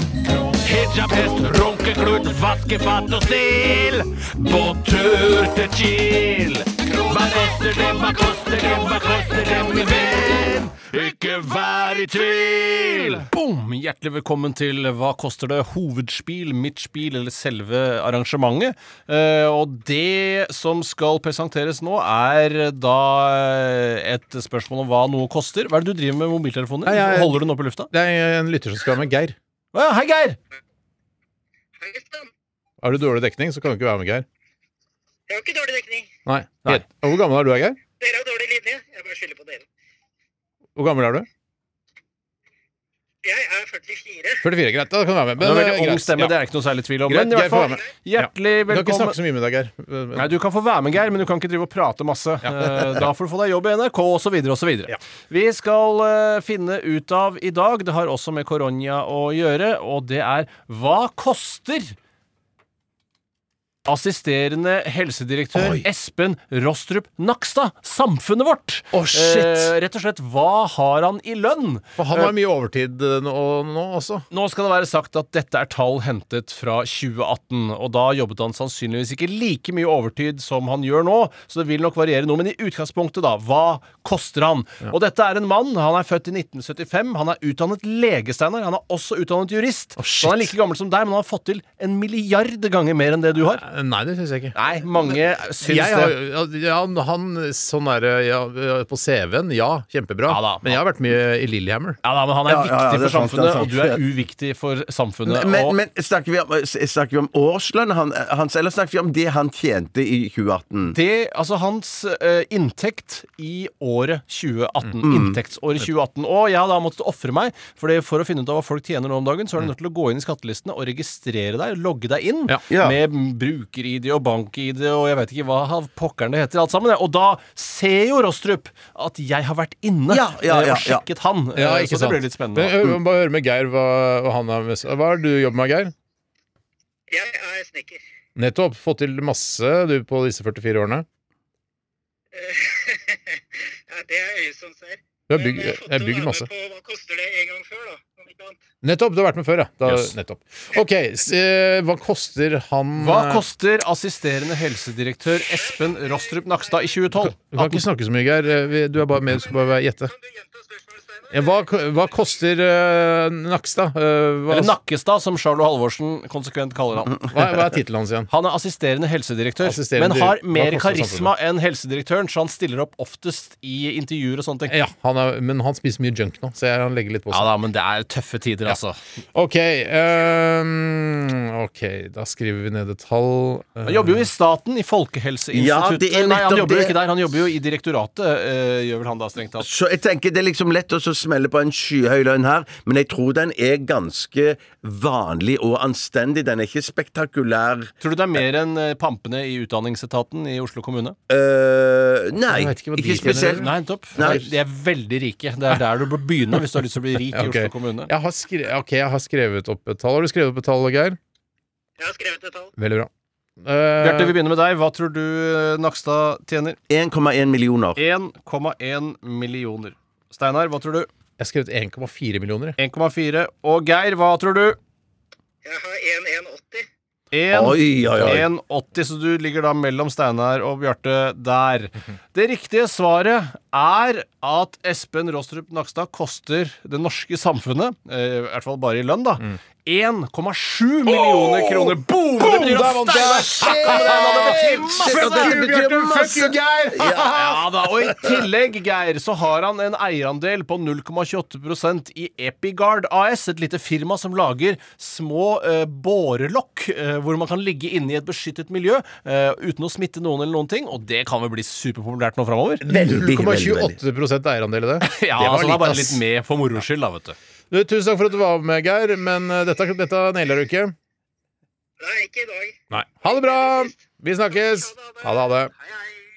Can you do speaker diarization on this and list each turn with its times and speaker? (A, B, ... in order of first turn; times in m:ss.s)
0:00.7-0:03.0 A
0:01.7-0:27.9 B
0:03.5-0:03.8 A
0:04.8-0:05.8 A
0:08.9-0:09.7 A
0:26.8-0:29.4 C
0:29.7-0:30.4 B
0:31.8-0:32.3 D
0:32.8-0:34.3 C
0:35.3-0:36.1 D
0:36.3-0:37.8 C
0:38.0-0:39.6 D
0:40.8-0:41.3 C
0:43.2-0:44.5 D
0:44.4-0:46.4 C
0:45.4-0:49.2 B
0:47.1-0:50.3 C
0:50.2-1:02.0 B
1:03.9-1:12.3 B
1:08.9-1:09.7 C
1:12.0-1:14.3 C
1:14.3-1:33.6 B
1:30.0-1:30.5 C
1:33.6-1:34.6 C
1:34.5-1:36.2 B
1:35.6-1:42.0 C
1:40.3-1:40.8 B
1:42.0-1:45.8 B
1:42.5-1:44.0 E
1:45.3-1:51.0 E
1:50.9-2:12.8 B
1:55.0-1:55.4 E
2:02.7-2:03.0 E
2:10.1-2:11.0 E
2:11.6-2:15.9 C
2:17.1-2:18.0 D
2:18.4-2:21.1 C
2:22.3-2:28.6 D
2:25.3-2:26.5 C
2:28.8-2:33.4 C
2:33.0-2:37.8 B
2:35.5-2:36.8 D
2:37.2-2:40.1 C
2:40.1-2:41.6 D
2:41.3-2:44.8 C
2:44.5-2:47.2 B
2:47.3-2:48.3 C
2:48.3-2:54.8 B
2:49.6-2:51.3 C
2:54.7-2:57.5 C
2:57.3-2:59.0 B
2:59.3-3:04.3 C
3:03.8-3:09.7 B
3:05.5-3:07.0 E
3:09.6-3:17.9 E
3:18.0-3:21.2 B
3:21.3-3:24.5 E
3:22.5-3:24.4 C
3:23.6-3:28.1 B
3:27.3-3:31.2 C
3:32.0-3:32.7 D
3:32.8-3:33.1 C
3:33.6-3:34.4 C
3:34.0-3:36.8 B
3:36.9-3:38.0 E
3:38.0-3:41.1 B
3:41.4-3:42.8 C
3:42.8-3:44.8 B
3:45.6-3:46.9 D
3:47.3-4:05.6 B
3:47.5-3:48.5 E
4:01.1-4:08.4 C
4:03.7-4:07.5 E
4:07.3-4:22.8 B
4:22.8-4:26.2 C
4:22.9-4:24.0 E
4:25.0-4:27.4 B
4:27.7-4:30.9 C
4:32.0-4:36.1 D
4:32.9-4:35.7 C